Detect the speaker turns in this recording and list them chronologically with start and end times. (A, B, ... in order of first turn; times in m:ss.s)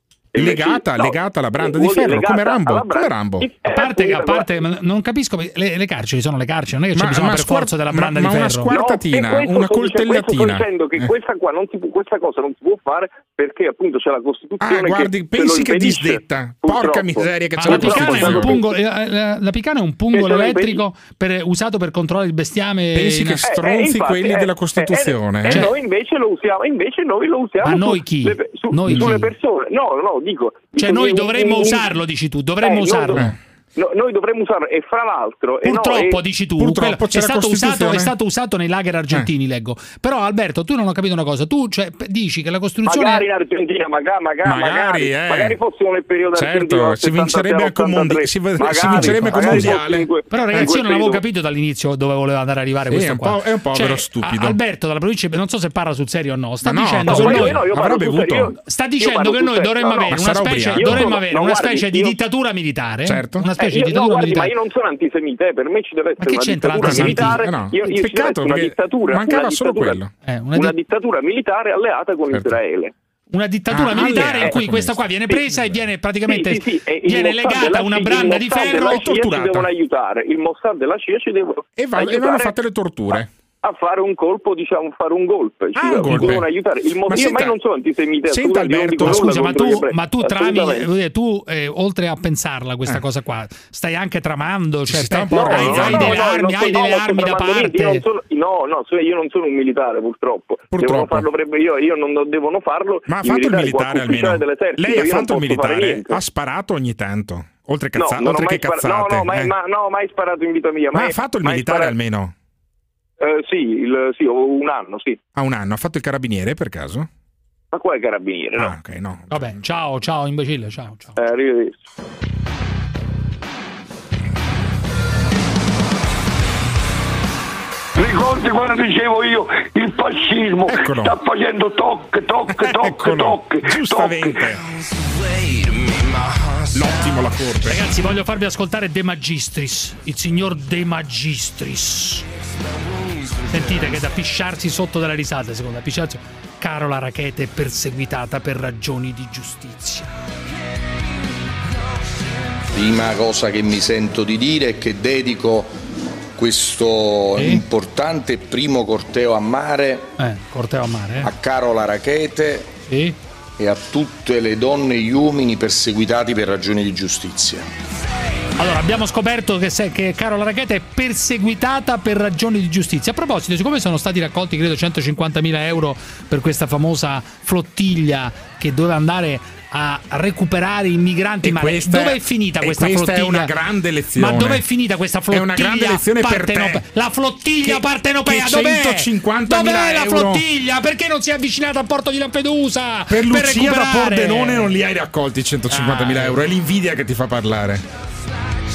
0:00.3-0:04.5 A
0:00.3-0:03.5 B
0:03.6-0:08.7 C
0:06.9-0:11.1 B
0:08.7-0:18.6 A
0:14.6-0:18.6 B
0:17.6-0:23.4 C
0:20.1-0:20.8 A
0:22.9-0:25.7 B
0:23.5-0:31.9 A
0:25.5-0:25.7 C
0:27.6-0:29.3 C
0:28.9-0:29.2 B
0:30.8-0:33.3 C
0:32.6-0:33.2 A
0:33.8-0:36.2 A
0:35.6-0:43.2 C
0:36.6-0:38.1 B
0:42.8-0:51.2 A
0:44.4-0:45.6 B
0:46.3-0:50.7 B
0:48.9-0:57.6 C
0:52.9-0:54.6 B
0:56.6-0:58.5 B
0:57.1-1:00.2 A
0:58.6-1:04.5 C
1:00.1-1:01.2 B
1:00.8-1:02.2 A
1:03.0-1:03.5 B
1:03.6-1:10.0 A
1:06.2-1:07.4 C
1:06.8-1:10.1 B
1:10.2-1:10.7 C
1:10.5-1:12.9 A
1:12.3-1:12.6 B
1:13.3-1:19.1 C
1:13.7-1:15.8 B
1:16.2-1:22.5 A
1:18.6-1:19.7 B
1:21.8-1:23.3 B
1:23.6-1:30.9 A
1:25.7-1:26.5 B
1:27.1-1:27.6 B
1:28.3-1:29.6 B
1:29.0-1:38.0 C
1:34.9-1:36.3 B
1:35.3-1:46.2 A
1:40.7-1:41.3 B
1:43.1-1:49.5 B
1:48.0-1:51.9 A
1:50.9-1:52.3 B
1:53.2-1:55.2 A
1:55.3-1:57.1 B
1:57.7-1:58.7 A
1:58.5-1:59.6 B
1:59.3-2:01.2 C
2:01.2-2:01.8 A
2:08.0-2:09.2 D
2:10.7-2:11.1 B
2:12.6-2:13.4 D
2:12.6-2:14.6 B
2:13.9-2:14.1 D
2:16.7-2:17.8 B
2:17.6-2:22.2 C
2:23.5-2:30.1 C
2:32.7-2:35.7 E
2:36.4-2:40.1 E
2:37.4-2:37.6 C
2:40.2-2:41.3 C
2:41.2-2:42.7 E
2:42.9-2:43.2 C
2:43.6-2:47.7 E
2:48.6-3:03.5 C
3:01.4-3:04.6 B
3:04.2-3:14.7 C
3:05.3-3:06.8 B
3:07.6-3:10.4 B
3:13.1-3:17.8 B
3:15.7-3:16.4 C